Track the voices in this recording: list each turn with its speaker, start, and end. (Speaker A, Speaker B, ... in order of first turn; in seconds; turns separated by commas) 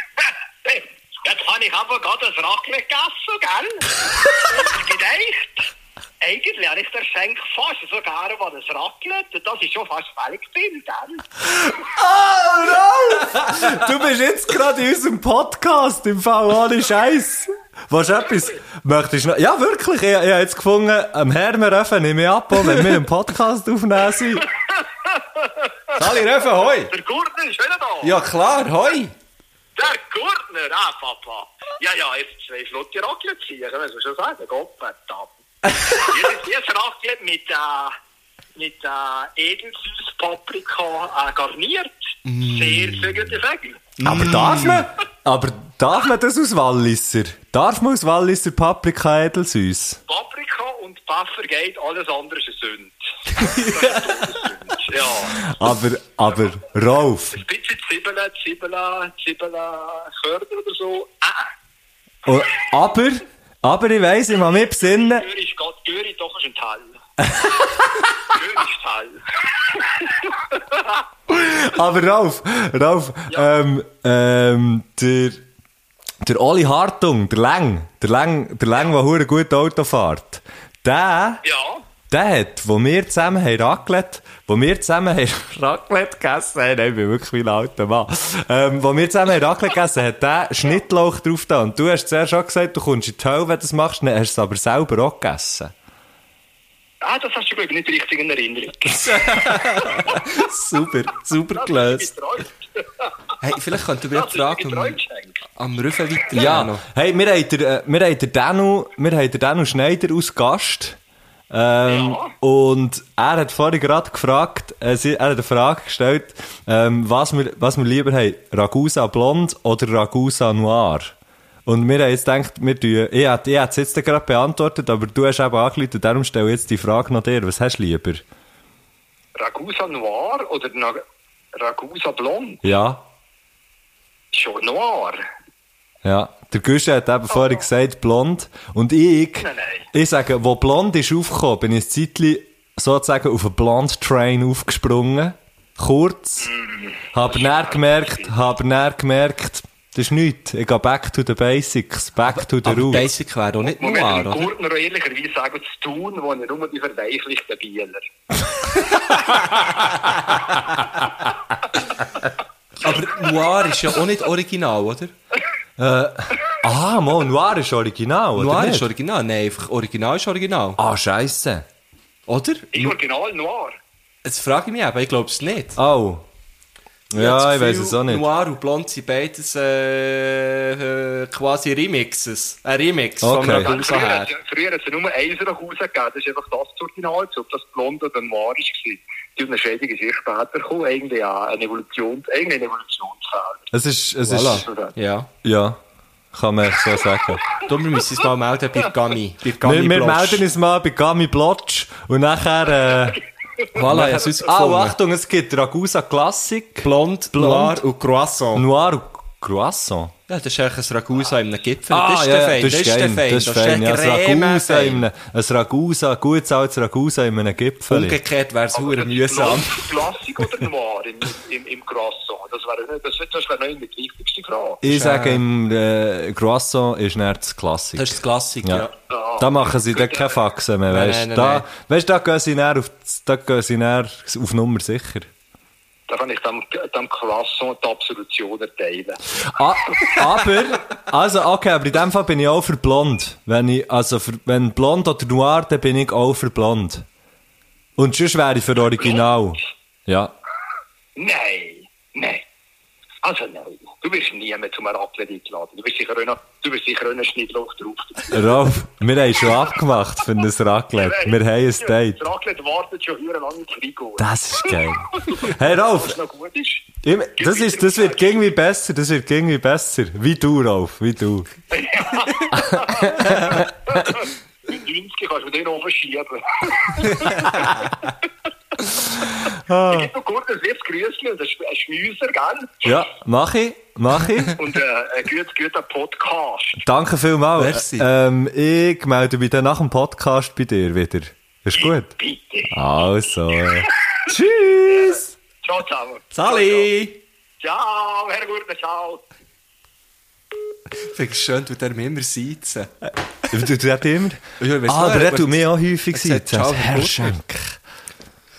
Speaker A: 0.6-11.3, Speaker B: 11.6-24.5, Speaker A: 24.8-25.7, Speaker C: 25.9-26.9, Speaker A: 26.9-28.2, Speaker C: 28.0-29.1, Speaker A: 29.8-38.0, Speaker A: 38.5-43.9, Speaker C: 42.2-43.2, Speaker C: 44.0-44.9, Speaker B: 44.0-50.0, Speaker A: 50.1-55.5, Speaker C: 53.3-54.5, Speaker B: 55.3-57.4, Speaker A: 57.3-61.5, Speaker B: 62.2-65.3, Speaker A: 65.0-66.9, Speaker B: 67.3-67.7, Speaker A: 68.2-71.0, Speaker B: 71.3-75.4, Speaker B: 76.2-81.4, Speaker A: 81.4-81.8, Speaker B: 82.1-95.7, Speaker A: 97.0-99.4, Speaker C: 99.0-102.1, Speaker A: 101.5-103.1, Speaker C: 103.4-105.0, Speaker A: 104.1-105.4, Speaker C: 105.6-106.8, Speaker B: 106.3-111.0, Speaker B: 111.5-121.2, Speaker A: 111.9-112.3, Speaker B: 121.7-128.2, Speaker A: 129.4-131.0, Speaker A: 131.5-132.6, Speaker B: 132.6-133.0, Speaker A: 134.3-135.2, Speaker B: 136.0-146.5, Speaker A: 139.4-139.9, Speaker A: 146.6-148.3, Speaker B: 147.1-153.1, Speaker C: 152.5-154.5, Speaker A: 153.8-158.1, Speaker C: 162.8-165.1, Speaker B: 165.8-168.9, Speaker C: 168.4-170.8, Speaker B: 170.8-171.7, Speaker C: 172.3-172.9, Speaker A: 172.7-173.8, Speaker C: 174.2-175.8, Speaker B: 175.8-176.3, Speaker B: 177.1-178.3, Speaker C: 177.1-184.3, Speaker B: 183.2-183.7, Speaker A: 183.5-193.7, Speaker B: 193.7-194.7, Speaker C: 194.3-195.3, Speaker A: 194.5-194.9, Speaker B: 195.4-195.8, Speaker B: 196.3-197.5, Speaker C: 197.7-200.4, Speaker B: 199.6-207.8, Speaker C: 203.8-205.0, Speaker C: 206.8-208.7, Speaker B: 208.5-210.1, Speaker C: 210.3-215.1, Speaker B: 211.9-218.2, Speaker C: 217.9-220.2, Speaker A: 218.7-224.8, Speaker B: 224.8-235.3, Speaker C: 224.8-225.4, Speaker C: 228.0-228.9, Speaker A: 229.1-230.3, Speaker C: 230.9-231.7, Speaker A: 236.1-239.2, Speaker B: 239.4-247.1, Speaker B: 248.0-250.3, Speaker A: 251.2-252.5, Speaker A: 253.2-258.3, Speaker B: 258.3-262.2, Speaker A: 261.0-268.3, Speaker B: 264.2-266.2, Speaker B: 267.0-271.5, Speaker A: 271.8-277.9, Speaker B: 272.7-273.5, Speaker B: 279.5-280.1, Speaker A: 279.9-283.0, Speaker B: 282.8-284.7, Speaker A: 284.6-286.8, Speaker B: 286.8-292.1, Speaker C: 287.6-288.1, Speaker A: 292.2-292.7, Speaker B: 292.7-295.3, Speaker A: 295.0-296.9, Speaker C: 296.3-297.2, Speaker A: 297.6-299.2, Speaker C: 301.0-302.9, Speaker B: 303.5-307.8, Speaker C: 304.6-307.4